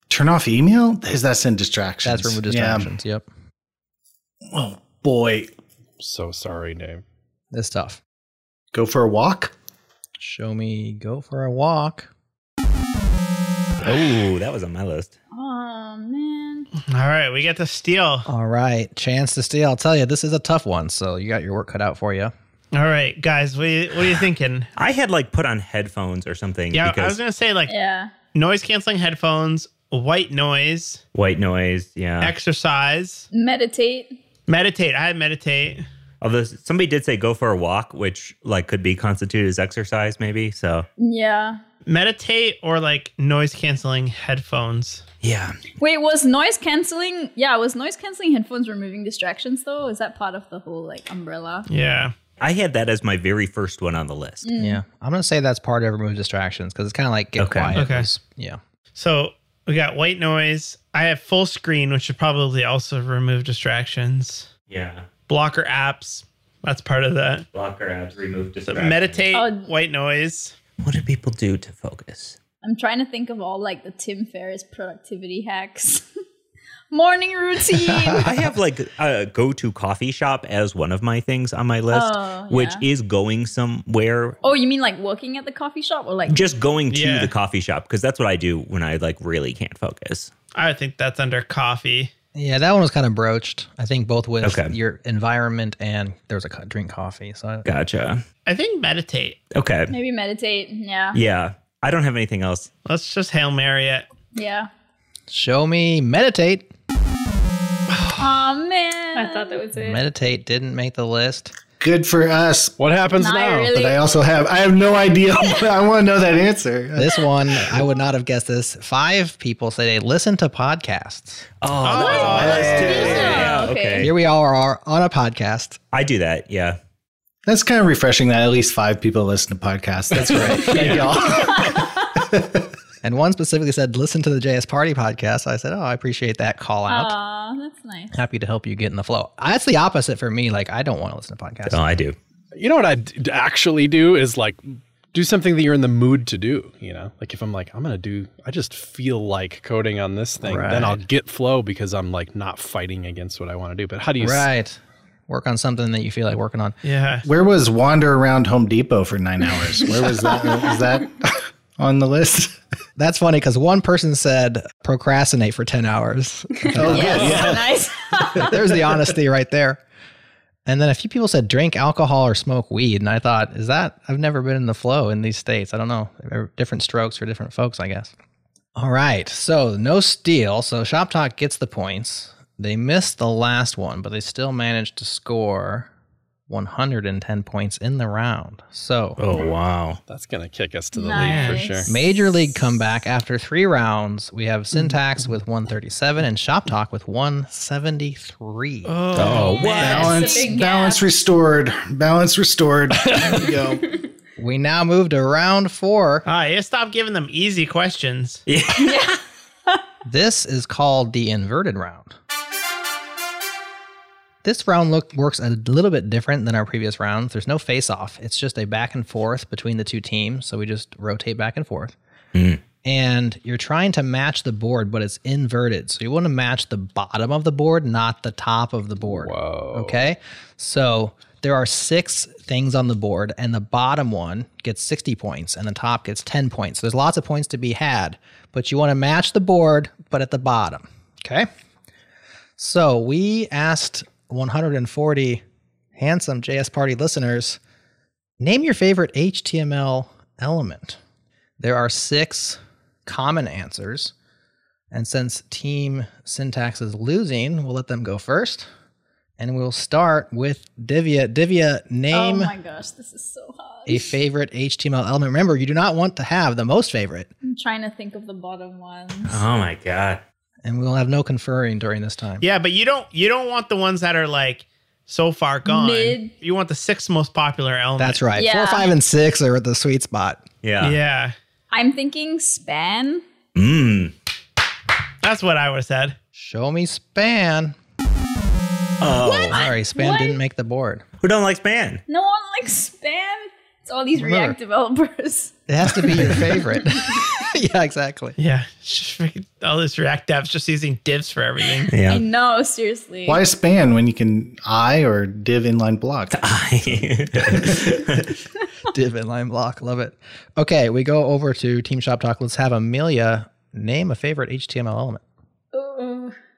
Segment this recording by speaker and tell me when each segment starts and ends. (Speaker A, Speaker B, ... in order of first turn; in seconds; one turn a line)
Speaker A: 0.1-2.9
Speaker B: 2.0-3.3
Speaker A: 4.5-5.5
Speaker C: 6.0-7.0
Speaker B: 7.5-8.0
Speaker A: 8.7-9.5
Speaker B: 10.2-12.1
Speaker D: 13.8-15.1
Speaker E: 15.3-16.7
Speaker F: 16.8-18.3
Speaker B: 18.3-22.3
Speaker F: 22.7-24.7
Speaker D: 24.8-27.2
Speaker F: 26.7-27.7
Speaker E: 27.7-28.1
Speaker F: 28.3-31.0
Speaker D: 31.1-32.4
Speaker F: 32.2-33.3
Speaker E: 33.3-34.2
Speaker F: 34.5-35.9
Speaker D: 36.2-40.9
Speaker E: 41.0-41.6
Speaker F: 41.9-45.0
Speaker D: 45.2-45.6
Speaker E: 45.8-51.7
Speaker F: 51.7-52.1
Speaker D: 52.4-54.5
Speaker E: 54.4-54.8
Speaker B: 54.6-58.6
Speaker D: 57.4-57.9
Speaker F: 57.7-58.1
Speaker F: 59.0-64.5
Speaker D: 64.7-65.1
Speaker F: 65.3-67.5
Speaker D: 67.5-69.2
Speaker F: 68.7-70.5
Speaker E: 69.3-69.7
Speaker D: 70.8-72.4
Speaker E: 72.6-76.1
Speaker E: 76.9-78.3
Speaker D: 78.2-84.4
Speaker E: 81.9-82.9
Speaker E: 84.4-86.5
Speaker D: 86.3-90.3
Speaker F: 86.9-87.3
Speaker F: 90.5-92.1
Speaker B: 92.3-97.7
Speaker D: 94.4-94.7
Speaker D: 97.7-98.2
Speaker F: 98.5-99.4
Speaker D: 99.5-99.9
Speaker E: 99.9-101.2
Speaker D: 101.1-102.7
Speaker F: 102.8-104.1
Speaker E: 104.3-104.7
Speaker B: 105.3-106.7
Speaker E: 108.1-109.7
Speaker G: 109.2-110.0
Speaker B: 109.8-111.5
Speaker A: 111.8-112.8
Speaker C: 112.8-113.8
Speaker E: 113.2-114.0
Speaker A: 113.8-117.7
Speaker B: 117.0-121.5
Speaker D: 121.6-124.1
Speaker F: 121.8-123.5
Speaker E: 121.9-124.1
Speaker A: 122.4-123.2
Speaker B: 124.0-125.8
Speaker D: 125.9-126.8
Speaker A: 127.5-132.7
Speaker B: 130.1-131.2
Speaker C: 130.6-131.2
Speaker B: 133.0-137.2
Speaker E: 136.9-138.1
Speaker B: 138.1-141.8
Speaker D: 141.7-142.2
Speaker C: 142.5-154.5
Speaker B: 150.4-151.0
Speaker B: 154.2-156.8
Speaker F: 156.8-157.3
Speaker A: 157.2-162.6
Speaker B: 163.0-167.6
Speaker A: 166.7-167.7
Speaker E: 166.8-168.6
Speaker B: 168.4-169.8
Speaker B: 170.7-178.1
Speaker B: 178.8-185.9
Speaker B: 186.5-189.2
Speaker D: 189.2-190.0
Speaker C: 190.1-191.9
Speaker E: 190.9-192.0
Speaker F: 191.1-191.7
Speaker B: 191.9-199.3
Speaker F: 198.8-200.3
Speaker D: 199.2-199.9
Speaker E: 199.4-201.1
Speaker A: 199.7-204.0
Speaker G: 200.2-200.7
Speaker C: 203.1-203.4
Speaker B: 204.4-206.2
Speaker F: 206.2-208.4
Speaker D: 208.5-209.1
Speaker E: 208.7-209.2
Speaker B: 210.1-212.2
Speaker B: 214.4-221.9
Speaker D: 222.3-222.6
Speaker B: 222.8-241.5
Speaker C: 229.0-230.0
Speaker B: 242.6-245.4
Speaker B: 245.9-247.6
Speaker B: 248.4-251.0
Speaker B: 251.6-254.1
Speaker B: 254.9-258.7
Speaker B: 259.4-262.5
Speaker E: 262.1-264.1
Speaker B: 263.9-267.3
Speaker E: 267.4-269.4
Speaker D: 269.3-270.2
Speaker B: 270.6-272.5
Speaker F: 272.4-278.2
Speaker E: 275.7-276.4
Speaker B: 278.0-280.4
Speaker E: 278.3-278.9
Speaker D: 280.6-281.0
Speaker F: 280.8-281.4
Speaker E: 281.7-283.2
Speaker D: 283.6-284.1
Speaker F: 285.2-286.2
Speaker B: 286.3-287.8
Speaker D: 289.0-289.6
Speaker E: 289.2-290.4
Speaker B: 289.5-291.1
Speaker D: 291.2-292.0
Speaker E: 292.1-295.6
Speaker B: 294.2-294.6
Speaker B: 295.7-298.4
Speaker F: 298.4-301.9
Speaker D: 301.9-302.3
Speaker E: 302.1-303.4
Speaker A: 303.3-306.4
Speaker D: 306.3-308.3
Speaker A: 307.5-307.8
Speaker B: 308.9-315.2
Speaker G: 315.7-316.4